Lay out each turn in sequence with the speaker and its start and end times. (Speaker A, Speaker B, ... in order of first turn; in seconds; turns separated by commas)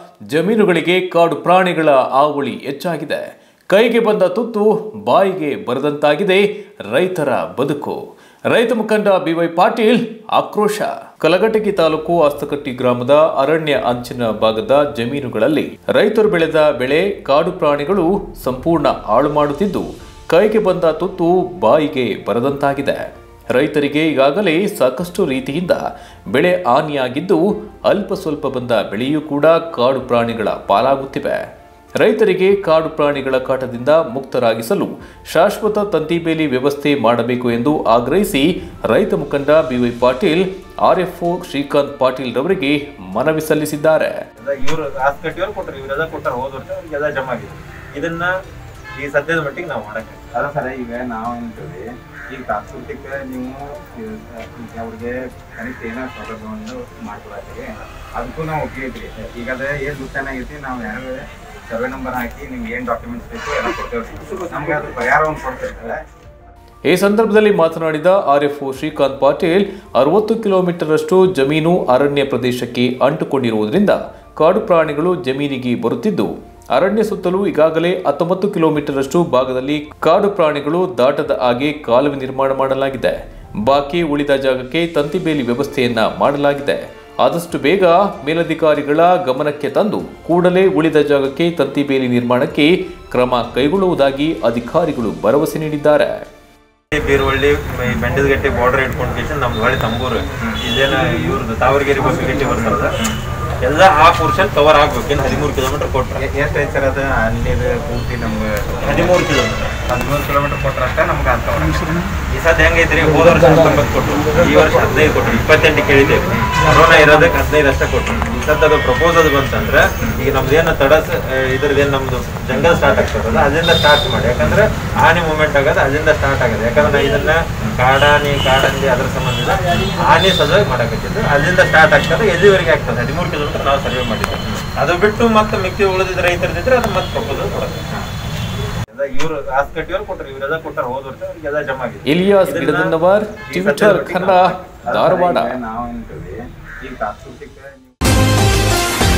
Speaker A: 0.3-23.0, Speaker A: 23.5-25.8, Speaker A: 26.3-31.4, Speaker A: 32.0-44.2, Speaker B: 44.4-48.3, Speaker B: 49.0-50.3, Speaker C: 50.3-66.0, Speaker A: 66.9-96.2, Speaker B: 96.9-102.9, Speaker B: 103.6-106.2, Speaker C: 106.2-108.9, Speaker B: 108.8-109.8, Speaker C: 109.9-111.9, Speaker B: 112.3-137.8, Speaker B: 138.9-142.9, Speaker A: 142.1-145.6, Speaker B: 143.5-145.1, Speaker C: 144.9-147.9